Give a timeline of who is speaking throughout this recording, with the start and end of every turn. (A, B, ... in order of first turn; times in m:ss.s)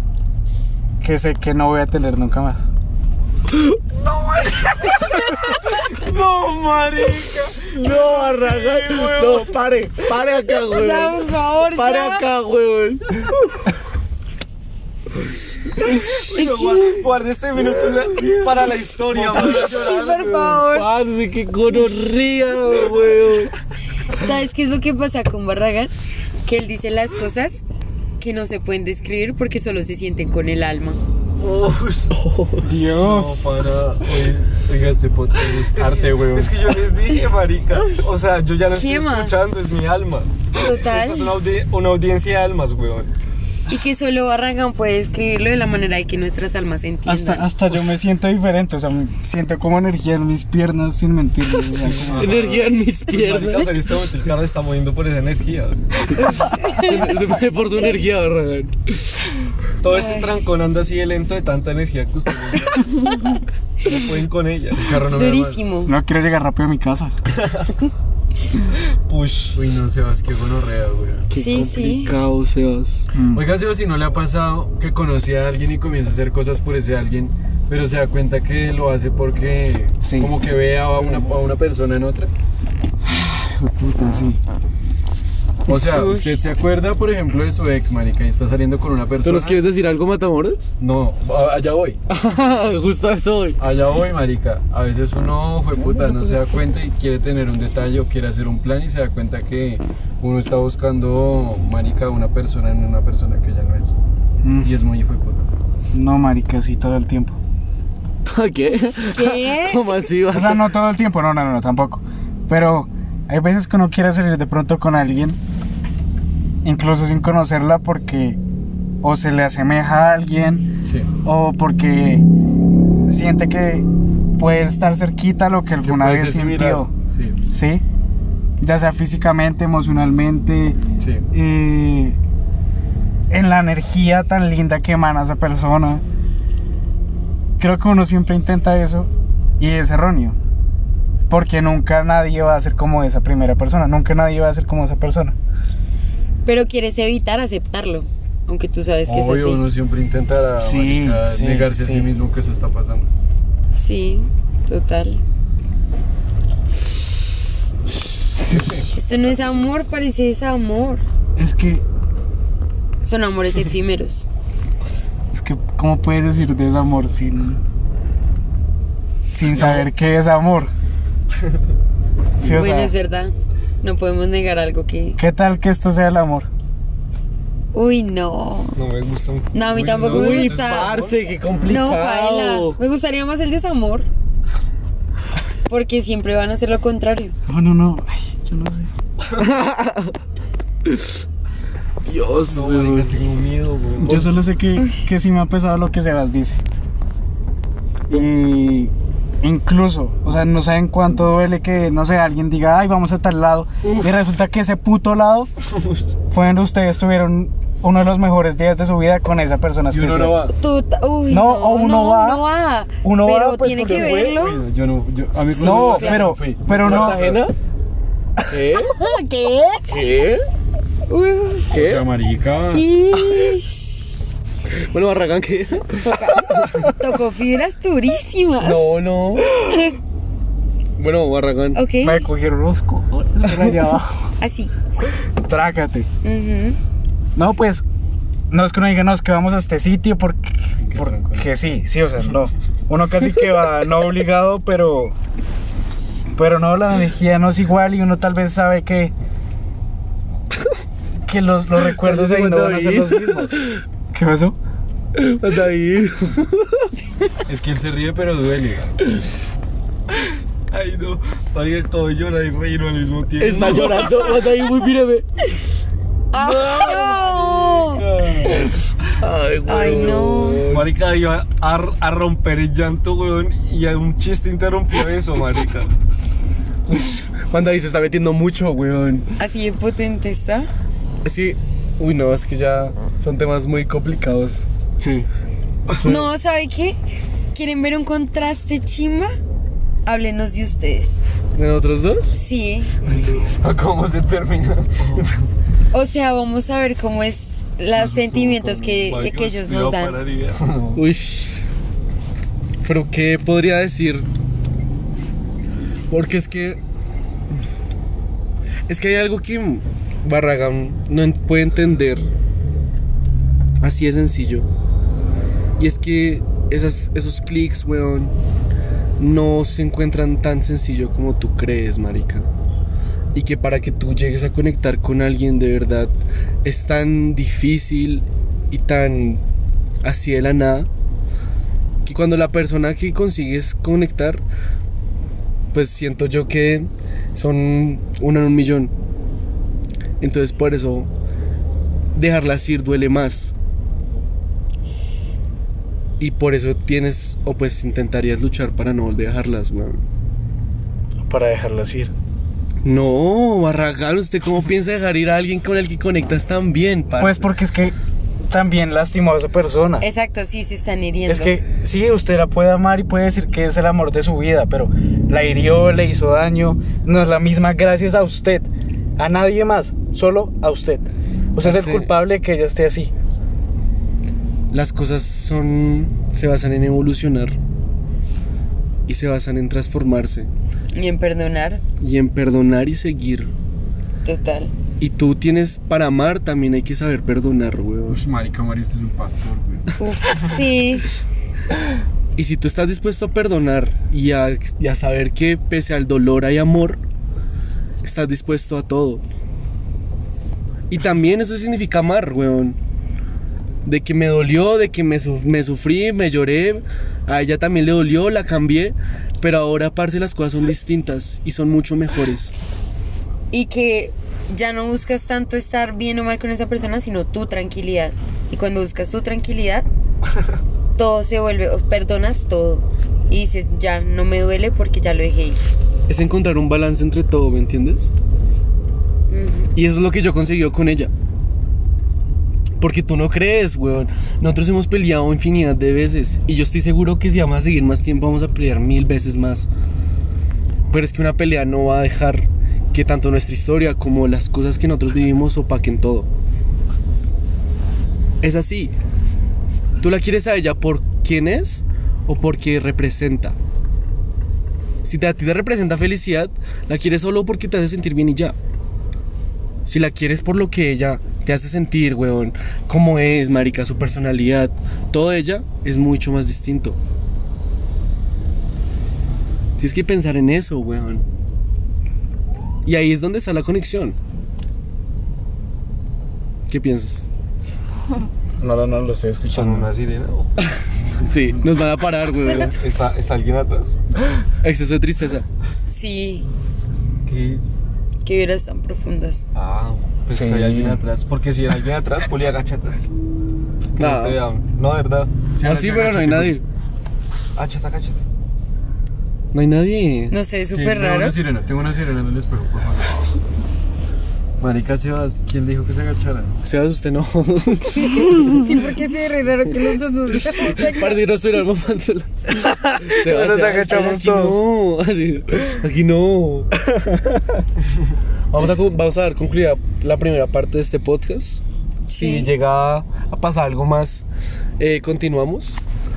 0:01.0-0:02.7 A
0:03.5-0:03.8 B
0:05.8-0:09.5 C
0:07.6-0:13.6 B
0:10.7-0:12.2 D
0:15.8-0:20.6 C
0:16.1-0:16.8 B
0:16.3-0:17.0 D
0:17.6-0:19.7 B
0:19.5-0:20.9 D
0:20.6-0:23.5 B
0:24.1-0:25.9 D
0:26.4-0:27.6 D
0:28.2-0:31.0 D
0:31.4-0:32.1 C
0:32.1-0:32.7 B
0:32.6-0:34.5 C
0:32.6-0:33.5 A
0:34.5-0:36.8 E
0:35.7-0:43.1 C
0:38.7-0:39.4 D
0:40.5-0:41.4 D
0:43.7-0:47.5 D
0:47.1-0:52.4 A
0:51.6-0:56.4 C
0:52.2-0:53.9 B
0:56.2-0:57.2 D
0:56.2-0:59.2 B
0:59.8-1:03.2 C
0:59.9-1:00.4 D
1:03.0-1:03.4 D
1:03.8-1:04.9 C
1:04.8-1:05.7 E
1:05.0-1:05.9 D
1:05.9-1:07.1 A
1:07.4-1:07.7 C
1:09.1-1:09.6 C
1:09.5-1:11.3 E
1:11.3-1:13.1 B
1:11.3-1:12.2 D
1:13.1-1:13.5 A
1:13.3-1:22.3 E
1:20.0-1:20.3 A
1:23.0-1:24.4 A
1:25.7-1:29.6 E
1:25.9-1:26.4 D
1:29.2-1:30.7 B
1:30.8-1:32.0 E
1:32.1-1:33.6 B
1:33.6-1:43.9 E
1:44.4-1:44.7 A
1:44.6-1:45.5 E
1:45.9-1:47.4 A
1:48.2-1:50.6 B
1:49.0-1:50.0 D
1:50.3-1:55.4 A
1:56.6-1:58.4 A
1:59.0-2:00.7 A
2:00.8-2:01.1 E
2:01.2-2:02.2 A
2:03.1-2:03.9 A
2:04.4-2:06.9 A
2:05.8-2:07.4 E
2:07.5-2:07.8 A
2:08.6-2:10.8 A
2:11.0-2:11.2 E
2:11.3-2:12.2 A
2:13.3-2:16.0 A
2:17.6-2:20.4 A
2:21.3-2:25.4 A
2:26.4-2:29.6 D
2:29.1-2:33.1 E
2:30.6-2:32.0 A
2:33.7-2:35.2 D
2:38.9-2:41.0 D
2:41.4-2:41.8 A
2:43.0-2:44.3 D
2:45.3-2:47.6 A
2:49.3-2:50.7 A
2:49.4-2:49.9 E
2:52.4-2:52.9 A
2:52.6-2:55.2 D
2:55.2-2:56.5 A
2:57.7-2:58.8 D
2:58.8-3:01.2 C
2:59.5-3:01.0 D
2:59.9-3:02.8 B
3:01.7-3:04.1 D
3:05.7-3:07.4 D
3:07.5-3:08.9 A
3:09.4-3:10.2 B
3:10.9-3:11.1 B
3:12.0-3:13.2 B
3:12.4-3:14.3 C
3:14.0-3:16.6 A
3:18.1-3:25.5 A
3:23.8-3:24.1 E
3:26.3-3:30.5 A
3:29.9-3:30.6 E
3:30.6-3:34.6 D
3:31.3-3:32.4 A
3:33.0-3:34.3 A
3:33.8-3:37.5 E
3:35.5-3:37.3 A
3:35.6-3:36.2 D
3:36.7-3:37.6 B
3:38.5-3:38.9 B
3:38.9-3:40.0 D
3:39.9-3:40.4 B
3:41.1-3:41.8 D
3:41.7-3:42.1 B
3:41.7-3:42.9 E
3:42.7-3:44.2 D
3:43.2-3:43.5 B
3:44.7-3:46.9 B
3:46.0-3:48.9 D
3:48.6-3:49.6 B
3:49.5-3:50.0 D
3:51.0-3:51.8 B
3:51.7-3:52.3 D
3:52.0-3:54.3 A
3:54.4-3:54.7 D
3:55.4-3:56.1 A
3:56.2-3:56.8 D
3:57.4-3:57.8 A
3:58.5-4:05.1 A
4:00.8-4:01.5 E
4:06.4-4:09.1 A
4:11.3-4:13.6 A
4:11.9-4:13.8 B
4:14.1-4:14.6 A
4:15.1-4:16.9 B
4:17.5-4:18.9 E
4:20.7-4:24.2 C
4:23.4-4:25.3 B
4:26.3-4:28.0 D
4:26.4-4:28.7 C
4:28.4-4:30.9 B
4:29.6-4:30.7 D
4:30.7-4:35.9 C
4:36.9-4:39.3 B
4:39.4-4:40.7 D
4:41.2-4:44.6 B
4:45.0-4:45.3 A
4:46.0-4:47.0 D
4:47.5-4:49.3 D
4:50.1-4:51.3 D
4:51.5-4:52.4 B
4:52.3-4:52.9 D
4:53.0-4:55.3 C
4:53.7-4:54.7 B
4:55.9-5:00.2 D
4:58.3-5:00.6 C
5:00.6-5:01.0 E
5:00.9-5:01.6 B
5:02.8-5:04.3 B
5:06.1-5:06.8 B
5:08.9-5:12.3 B
5:13.8-5:14.7 B
5:15.8-5:18.4 B
5:19.2-5:22.5 B
5:23.3-5:26.1 B
5:26.6-5:29.4 B
5:30.0-5:30.9 B
5:32.0-5:34.4 B
5:35.7-5:38.9 B
5:40.2-5:41.1 B
5:42.1-5:43.5 B
5:46.2-5:50.0 B
5:51.2-5:52.1 A
5:52.8-5:57.5 B
5:57.2-5:57.9 A
5:58.5-6:00.1 A
6:00.0-6:01.6 D
6:01.3-6:13.1 A
6:11.6-6:12.1 B
6:14.7-6:17.6 B
6:19.1-6:20.5 B
6:20.9-6:21.8 D
6:22.0-6:23.5 B
6:24.2-6:24.7 D
6:25.0-6:28.2 B
6:28.1-6:30.0 E
6:30.0-6:31.1 D
6:32.4-6:37.0 B
6:38.0-6:39.2 B
6:40.9-6:42.8 B
6:43.8-6:52.5 B
6:53.5-6:59.9 D
7:01.0-7:05.6 D
7:06.1-7:08.1 B
7:09.3-7:09.7 D
7:09.8-7:11.1 B
7:12.8-7:19.7 B
7:20.9-7:26.3 B
7:28.4-7:28.9 B
7:30.0-7:33.6 B
7:35.0-7:38.6 B
7:39.9-7:47.0 B
7:49.8-7:51.2 B
7:52.8-7:54.2 B
7:56.7-7:57.3 B
7:58.6-7:59.9 A
7:59.5-8:00.6 C
8:00.6-8:02.7 B
8:01.2-8:01.8 E
8:02.4-8:04.0 C
8:02.5-8:02.7 D
8:04.6-8:05.4 B
8:05.9-8:06.5 D
8:07.3-8:07.6 C
8:08.2-8:09.5 D
8:09.5-8:13.0 C
8:10.3-8:11.0 A
8:14.0-8:15.3 C
8:14.0-8:14.4 B
8:15.6-8:16.6 E
8:15.6-8:16.6 B
8:17.6-8:18.2 C
8:19.5-8:20.4 B
8:20.3-8:21.4 D
8:20.7-8:23.2 E
8:24.6-8:26.6 E
8:26.6-8:28.6 B
8:27.9-8:31.2 D
8:30.5-8:36.7 B
8:32.6-8:34.6 A
8:36.9-8:37.4 A
8:38.5-8:41.6 B
8:42.1-8:42.5 D
8:42.1-8:44.2 B
8:44.8-8:45.8 B